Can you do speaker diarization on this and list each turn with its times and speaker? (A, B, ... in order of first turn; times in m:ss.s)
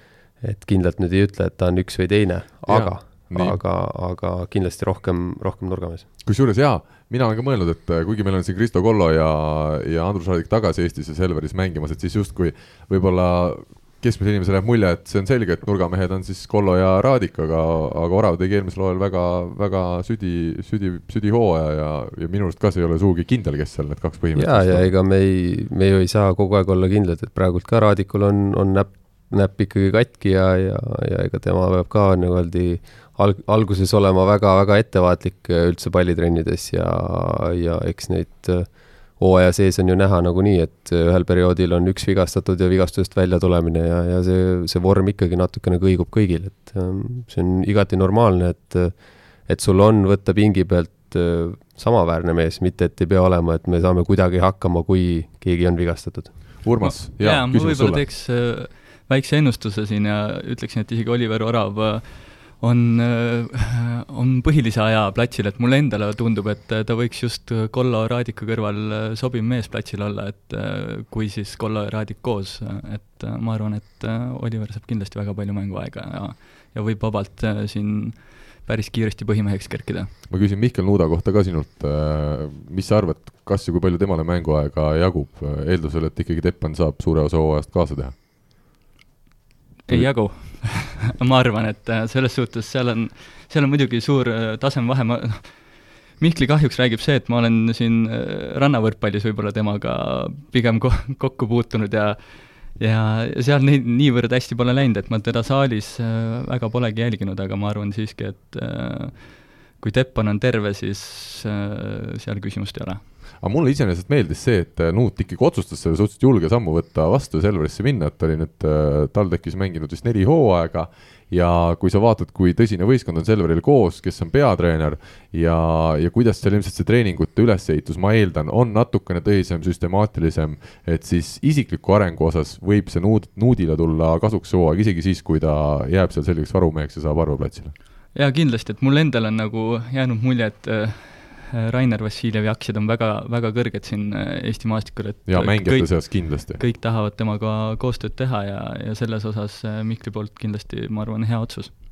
0:00.4-0:06.1 A
0:02.7-0:03.6 B
0:06.2-0:24.9 B
0:24.3-0:48.9 A
0:49.4-0:56.3 A
0:56.6-0:58.0 B
0:56.8-1:20.1 C
1:20.3-1:28.1 B
1:29.9-1:35.7 C
1:36.2-1:42.2 C
1:42.7-1:49.2 C
1:49.8-1:53.0 C
1:53.4-2:17.7 B
2:18.1-2:31.7 C
2:25.3-2:26.6 B